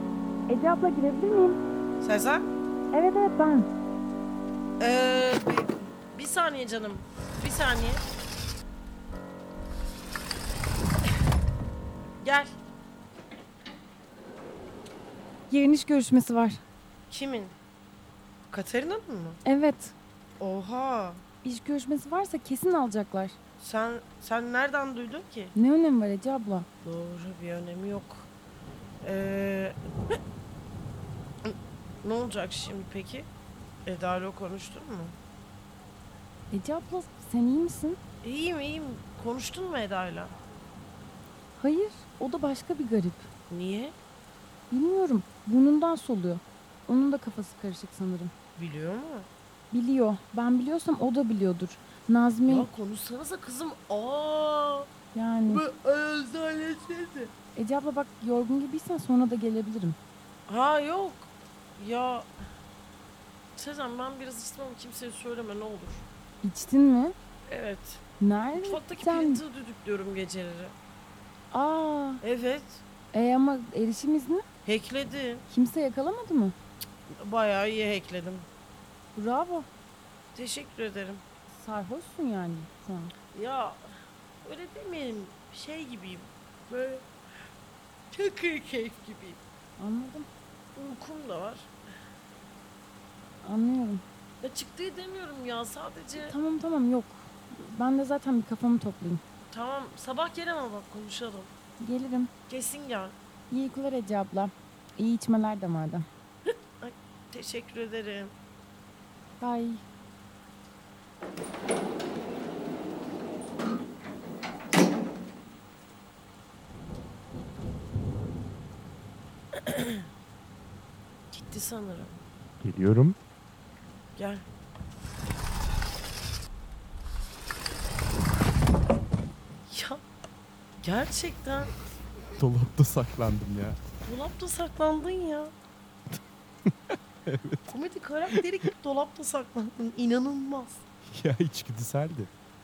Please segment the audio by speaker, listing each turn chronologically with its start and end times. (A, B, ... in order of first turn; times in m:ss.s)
0:00.5-0:01.6 A
0:02.0-0:02.5 B
0:02.9-0:03.7 A
0:04.8-0:08.0 B
0:12.2-0:12.5 B
0:15.5-0:16.6 A
0:17.1-0:17.5 B
0:18.5-0:19.4 B
0:19.4-0:19.9 A
0:20.4-0:21.2 B
0:21.4-0:23.4 A
0:23.6-0:25.5 B
0:25.5-0:26.7 A
0:26.8-0:28.3 B
0:29.0-0:30.1 B
0:31.4-0:33.3 B
0:33.8-0:35.2 B
0:36.5-0:38.0 A
0:38.2-0:40.3 B
0:41.6-0:43.3 A
0:43.5-0:43.9 B
0:44.7-0:48.3 A
0:48.6-0:49.3 B
0:49.7-0:52.7 A
0:52.5-0:54.9 B
0:55.1-0:55.6 A
0:55.5-0:57.3 B
0:57.6-1:00.0 A
1:00.5-1:02.3 B
1:03.6-1:06.1 B
1:06.4-1:07.1 A
1:07.5-1:08.0 B
1:08.2-1:09.4 A
1:08.5-1:10.7 B
1:11.5-1:12.2 A
1:12.2-1:12.8 B
1:13.1-1:14.4 A
1:14.6-1:15.4 B
1:15.5-1:16.6 A
1:17.1-1:18.5 B
1:19.2-1:19.7 A
1:20.3-1:21.2 B
1:21.5-1:23.1 A
1:23.3-1:23.8 B
1:24.4-1:27.1 B
1:28.1-1:29.4 B
1:29.8-1:30.3 A
1:30.8-1:31.7 B
1:33.4-1:34.0 A
1:34.4-1:36.3 B
1:36.2-1:39.2 A
1:39.5-1:41.5 B
1:41.8-1:42.3 A
1:42.5-1:43.2 B
1:43.5-1:46.0 A
1:46.8-1:48.3 B
1:49.4-1:49.8 A
1:59.5-2:00.0 B
2:01.3-2:02.2 B
2:02.6-2:03.2 C
2:04.2-2:04.4 B
2:09.7-2:10.0 B
2:10.8-2:11.8 B
2:12.4-2:13.8 C
2:14.0-2:15.5 B
2:16.9-2:17.8 C
2:17.7-2:20.8 B
2:21.0-2:22.3 C